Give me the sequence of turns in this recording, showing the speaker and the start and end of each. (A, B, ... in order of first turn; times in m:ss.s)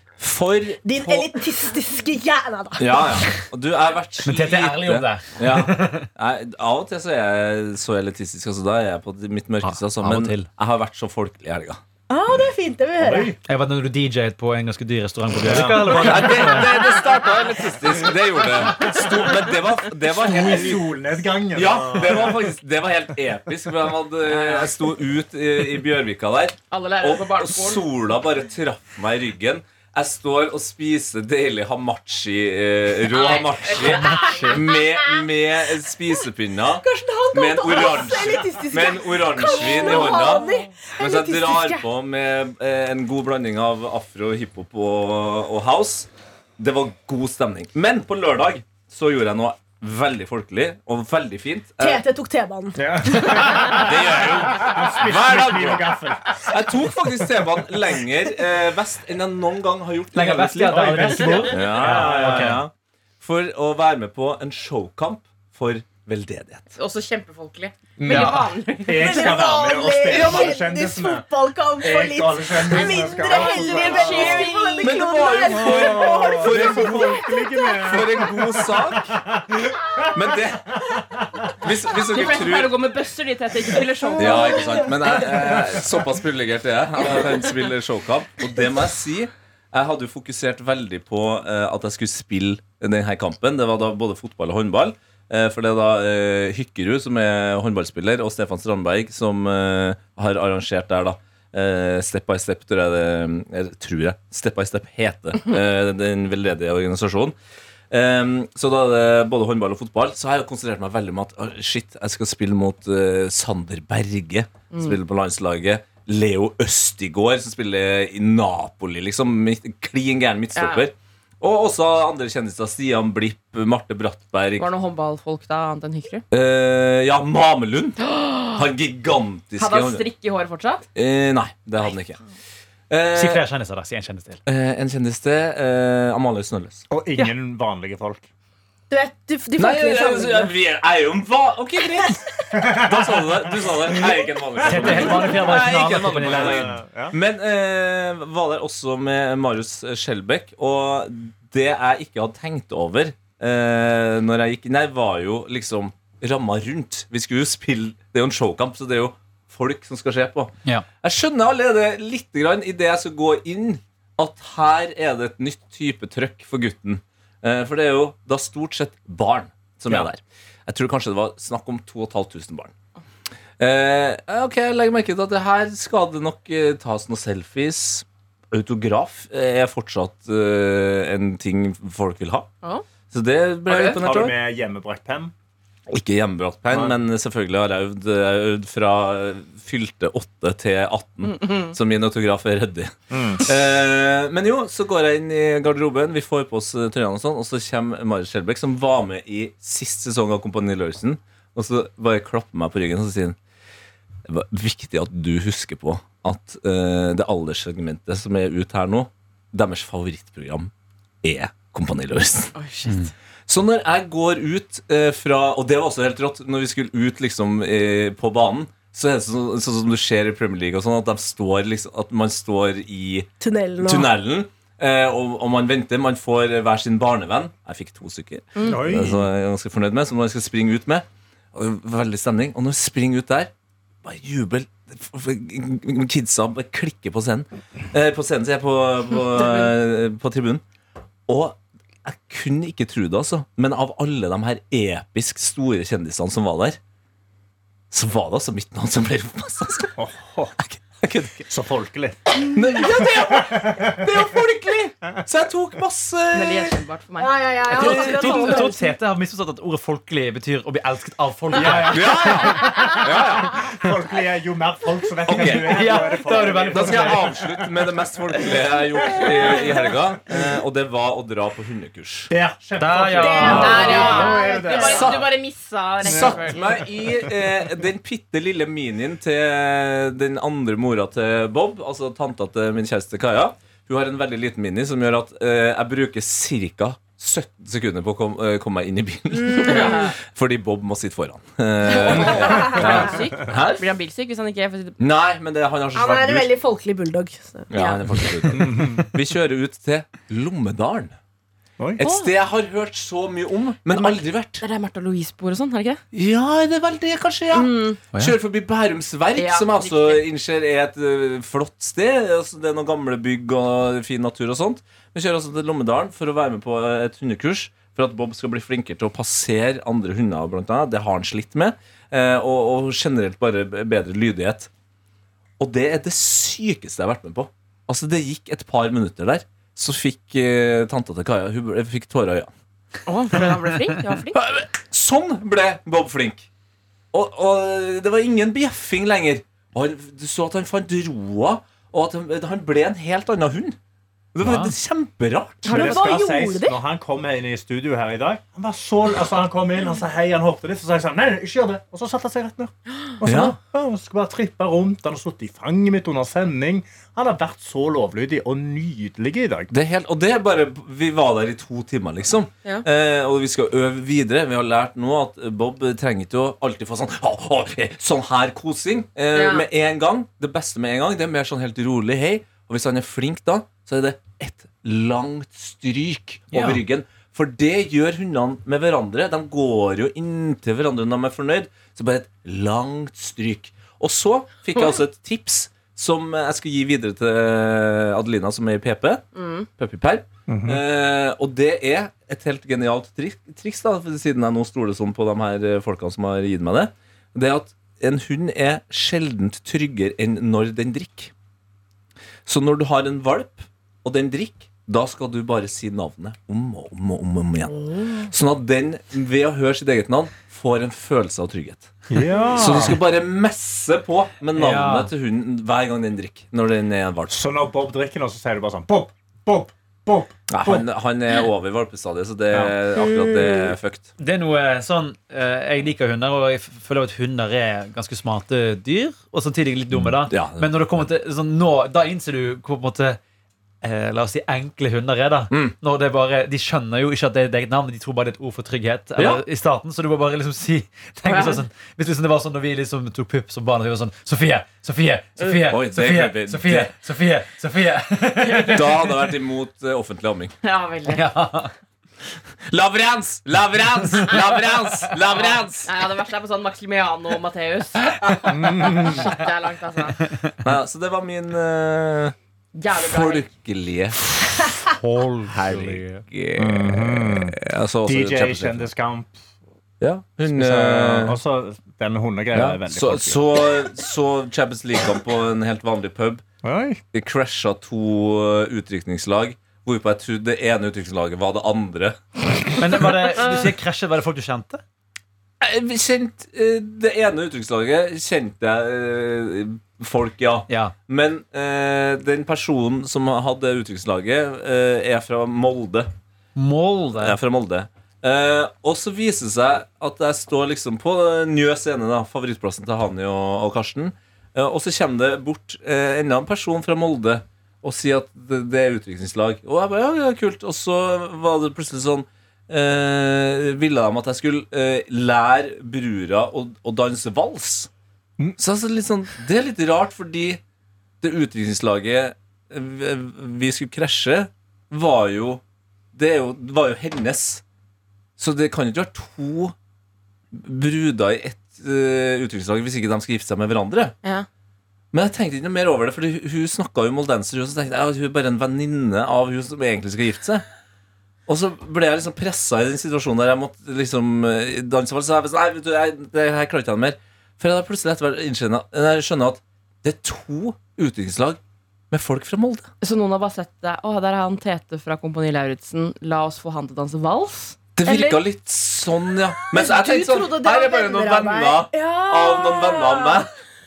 0:00.2-0:01.4 A
0:00.8-0:03.4 B
0:02.8-0:11.8 A
0:04.2-0:06.1 C
0:09.6-0:10.5 C
0:12.1-0:13.4 B
0:13.0-0:13.4 D
0:13.5-0:16.9 C
0:15.4-0:16.4 D
0:15.6-0:20.8 A
0:18.6-0:19.3 D
0:20.1-0:22.4 D
0:21.5-0:52.0 A
0:24.2-0:24.7 E
0:26.7-0:27.8 E
0:33.1-0:34.8 E
0:33.9-0:34.6 C
0:36.8-0:41.8 B
0:39.8-0:40.5 E
0:51.8-0:53.9 B
0:52.7-0:57.5 D
0:53.8-1:06.7 A
1:00.1-1:02.6 C
1:00.7-1:02.6 D
1:06.7-1:09.5 E
1:08.0-1:11.2 D
1:08.1-1:08.4 C
1:08.9-1:18.0 B
1:11.8-1:14.6 D
1:12.8-1:15.1 E
1:14.8-1:17.2 A
1:15.4-1:21.7 D
1:17.8-1:19.2 A
1:20.1-1:20.9 A
1:21.5-1:22.8 A
1:22.0-1:24.9 E
1:24.2-1:47.3 A
1:24.2-1:26.0 D
1:47.9-2:04.7 A
1:54.7-1:55.0 E
2:00.5-2:00.9 E
2:04.6-2:06.2 E
2:06.3-2:10.0 A
2:08.0-2:08.6 E
2:09.6-2:10.9 E
2:10.9-2:12.2 A
2:12.9-2:13.4 A
2:13.1-2:14.4 C
2:14.4-2:16.8 A
2:16.9-2:18.2 D
2:18.9-2:20.5 B
2:19.6-2:52.7 A
2:22.5-2:25.5 D
2:24.6-2:26.7 C
2:26.2-2:27.2 D
2:53.6-3:02.5 A
3:03.1-3:04.3 A
3:03.7-3:04.0 E
3:03.9-3:05.3 D
3:05.9-3:23.4 A
3:06.7-3:07.0 D
3:11.2-3:11.7 E
3:13.1-3:13.4 D
3:24.3-3:30.7 A
3:31.2-3:32.5 A
3:32.5-3:33.1 E
3:32.9-3:33.1 C
3:33.5-3:53.5 A
3:43.4-3:44.1 B
3:48.6-3:49.3 D
3:54.0-4:00.6 A
4:01.3-4:06.8 A
4:07.9-4:09.9 A
4:10.0-4:10.7 D
4:10.8-4:11.5 A
4:11.5-4:14.4 D
4:12.4-4:16.8 A
4:16.3-4:18.6 E
4:17.2-4:18.9 B
4:17.7-4:23.0 C
4:17.7-4:18.6 A
4:21.5-4:27.3 D
4:21.8-4:23.7 A
4:25.3-4:26.0 A
4:25.4-4:27.3 C
4:26.7-4:32.3 A
4:32.3-4:35.3 D
4:32.8-4:34.1 C
4:33.2-4:35.2 B
4:33.2-4:36.6 E
4:36.0-4:36.4 D
4:36.0-4:53.8 A
4:37.0-4:37.3 D
4:49.3-4:50.0 B
4:49.6-4:50.1 E
4:51.8-4:55.0 E
4:51.9-4:53.2 B
4:55.0-4:56.5 A
4:55.9-4:57.7 B
4:57.7-5:01.2 A
4:57.7-4:58.0 E
4:58.2-4:58.7 C
4:58.5-4:59.1 D
5:02.0-5:04.6 A
5:02.0-5:02.3 E
5:03.9-5:06.0 E
5:06.1-5:24.7 A
5:07.5-5:08.0 E
5:09.4-5:10.2 E
5:25.6-5:32.5 A
5:33.0-5:34.4 E
5:34.3-5:36.5 A
5:37.1-5:43.8 A
5:44.3-5:46.0 A
5:44.4-5:44.7 C
5:45.6-5:46.8 B
5:45.6-5:59.7 D
5:53.2-5:53.6 A
5:59.7-6:29.2 A
6:09.3-6:09.7 E
6:16.5-6:16.8 C
6:29.3-6:29.7 E
6:29.8-6:41.3 A
6:30.5-6:30.8 D
6:42.4-6:51.9 A
6:52.1-6:53.0 D
6:52.5-6:57.4 A
6:54.6-6:55.1 C
6:57.3-7:00.9 D
7:00.5-7:04.1 A
7:03.0-7:03.7 B
7:04.2-7:13.2 C
7:10.3-7:11.0 A
7:13.8-7:29.1 C
7:15.5-7:15.8 A
7:19.2-7:19.4 A
7:21.2-7:21.6 E
7:25.4-7:26.9 A
7:28.4-7:28.8 E
7:28.7-7:30.5 A
7:30.6-7:31.2 E
7:31.0-7:31.7 C
7:32.7-7:35.9 A
7:35.3-7:40.2 E
7:38.5-7:39.2 D
7:40.6-7:42.3 A
7:42.7-7:43.5 E
7:42.9-7:44.3 A
7:44.7-7:46.3 C
7:45.4-7:48.9 A
7:46.6-7:49.4 D
7:50.0-7:51.4 A
7:50.5-7:53.4 D
7:52.5-7:56.4 A
7:56.6-7:57.0 D
7:57.1-8:02.2 A
8:02.8-8:04.8 C
8:03.0-8:03.5 A
8:05.6-8:16.1 A
8:10.7-8:10.9 C
8:16.6-8:17.4 C
8:17.2-8:37.9 A
8:38.6-8:40.6 A
8:41.2-8:45.6 A
8:46.1-8:47.6 A
8:48.4-8:49.7 A
8:50.5-8:54.2 A
8:55.1-9:00.6 A
9:01.5-9:11.6 A
9:12.1-9:12.9 A
9:13.0-9:18.4 E
9:18.0-9:23.5 A
9:19.7-9:23.4 B